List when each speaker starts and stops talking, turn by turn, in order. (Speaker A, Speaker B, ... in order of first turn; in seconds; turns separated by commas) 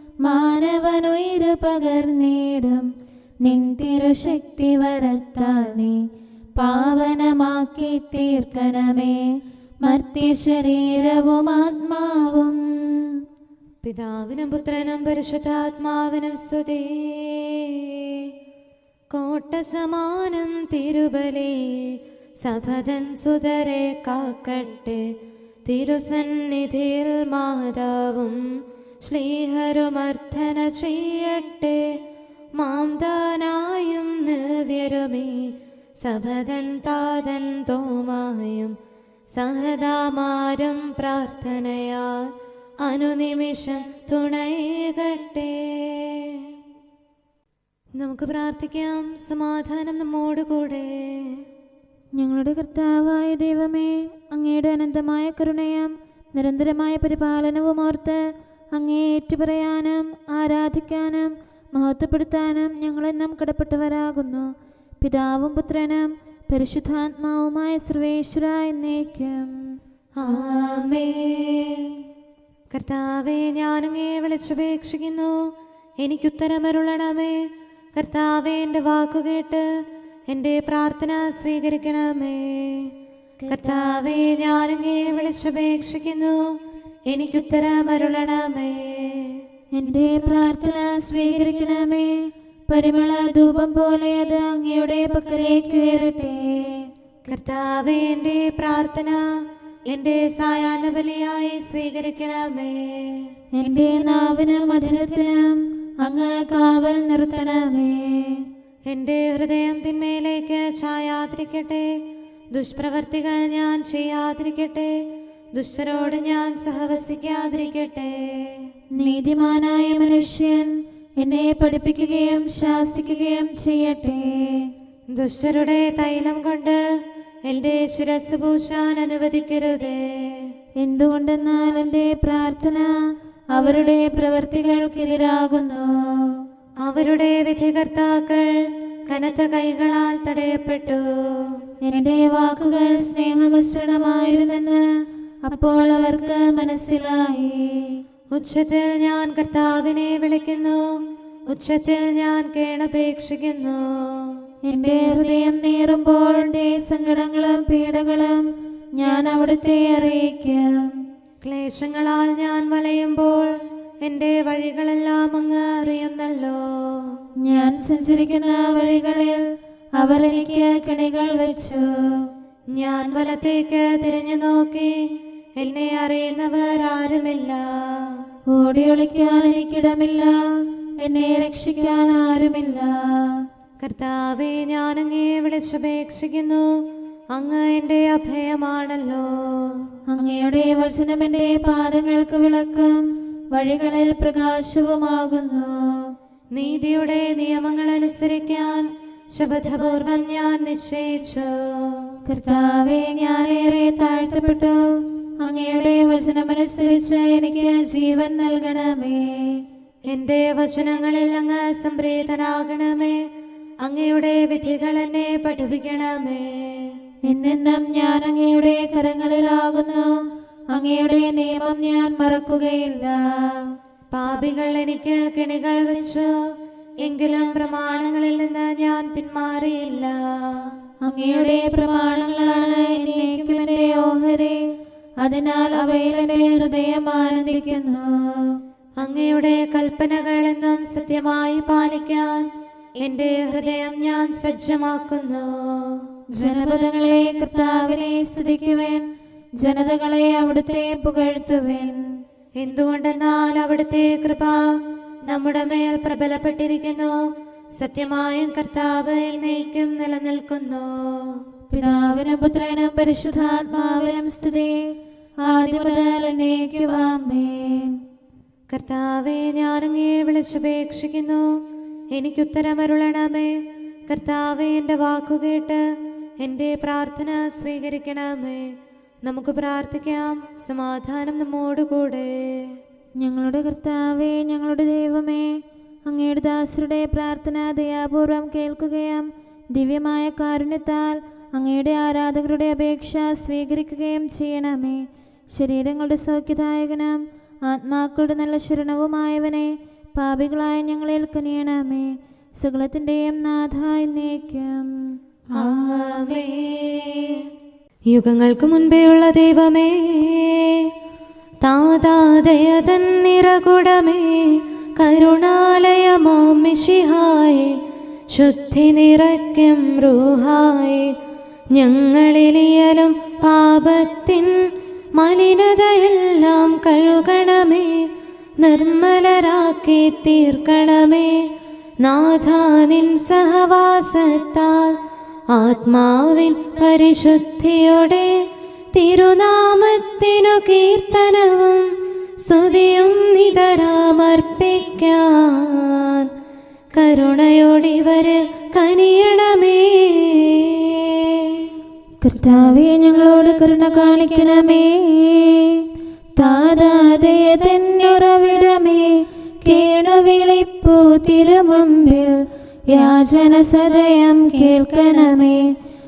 Speaker A: 0.2-2.9, Speaker A: 3.4-6.0, Speaker A: 6.6-9.2, Speaker A: 9.8-13.1, Speaker B: 13.8-18.3, Speaker B: 19.1-25.0, Speaker B: 25.7-28.4, Speaker B: 29.0-31.8, Speaker B: 32.6-38.8, Speaker B: 39.3-42.3, Speaker B: 42.8-46.5, Speaker B: 48.0-51.4, Speaker A: 52.2-58.2, Speaker A: 58.8-64.5, Speaker A: 65.0-69.5, Speaker B: 70.2-71.9, Speaker B: 72.7-75.4, Speaker B: 76.0-77.3, Speaker B: 78.0-79.6, Speaker B: 80.3-82.9, Speaker B: 83.5-86.4, Speaker B: 87.1-89.4, Speaker A: 89.7-92.1, Speaker A: 92.7-96.7, Speaker B: 97.3-99.2, Speaker B: 99.9-103.3, Speaker A: 103.5-108.4, Speaker B: 108.9-111.9, Speaker B: 112.5-114.9, Speaker B: 115.5-118.7, Speaker A: 119.0-124.7, Speaker B: 125.1-126.8, Speaker B: 127.5-130.5, Speaker A: 130.8-132.9, Speaker A: 133.6-136.3, Speaker B: 136.8-138.5, Speaker B: 139.1-141.6, Speaker A: 141.8-144.8, Speaker A: 145.5-147.9, Speaker B: 148.3-150.8, Speaker B: 151.5-154.3, Speaker A: 154.7-158.5, Speaker A: 159.0-160.9, Speaker B: 161.4-167.2, Speaker A: 167.4-169.4, Speaker A: 170.0-171.9, Speaker B: 172.8-174.9, Speaker B: 175.6-178.2, Speaker A: 178.5-180.4, Speaker A: 181.0-183.4, Speaker B: 183.8-186.7, Speaker B: 187.3-189.9, Speaker A: 190.1-193.0, Speaker A: 193.5-195.7, Speaker B: 196.5-202.1, Speaker A: 202.3-204.8, Speaker A: 205.4-209.6, Speaker B: 210.1-213.2, Speaker B: 213.8-217.0, Speaker A: 217.2-220.1, Speaker A: 220.7-223.6, Speaker B: 224.1-226.3, Speaker B: 227.0-230.7, Speaker A: 231.0-234.6, Speaker A: 235.2-238.6, Speaker B: 239.0-242.5, Speaker B: 243.0-246.0, Speaker A: 246.4-249.0, Speaker A: 249.6-252.0, Speaker B: 252.6-254.7, Speaker B: 255.3-257.2, Speaker B: 257.8-261.4, Speaker A: 261.7-264.8, Speaker A: 265.4-268.0, Speaker B: 268.7-271.5, Speaker B: 272.1-273.5, Speaker B: 274.1-275.8, Speaker B: 276.4-278.7, Speaker B: 279.2-282.7, Speaker A: 283.2-285.5, Speaker A: 286.1-295.0, Speaker A: 295.5-302.1, Speaker A: 302.6-304.9, Speaker B: 305.6-307.4, Speaker B: 308.1-310.9, Speaker B: 311.6-317.8, Speaker B: 318.3-321.1, Speaker B: 321.8-324.6, Speaker B: 325.2-327.9, Speaker B: 328.6-331.3, Speaker B: 332.0-335.0, Speaker B: 335.5-338.3, Speaker B: 338.9-346.3, Speaker B: 346.9-351.7, Speaker A: 352.2-355.8, Speaker A: 356.4-359.1, Speaker A: 359.6-362.4, Speaker A: 362.9-365.6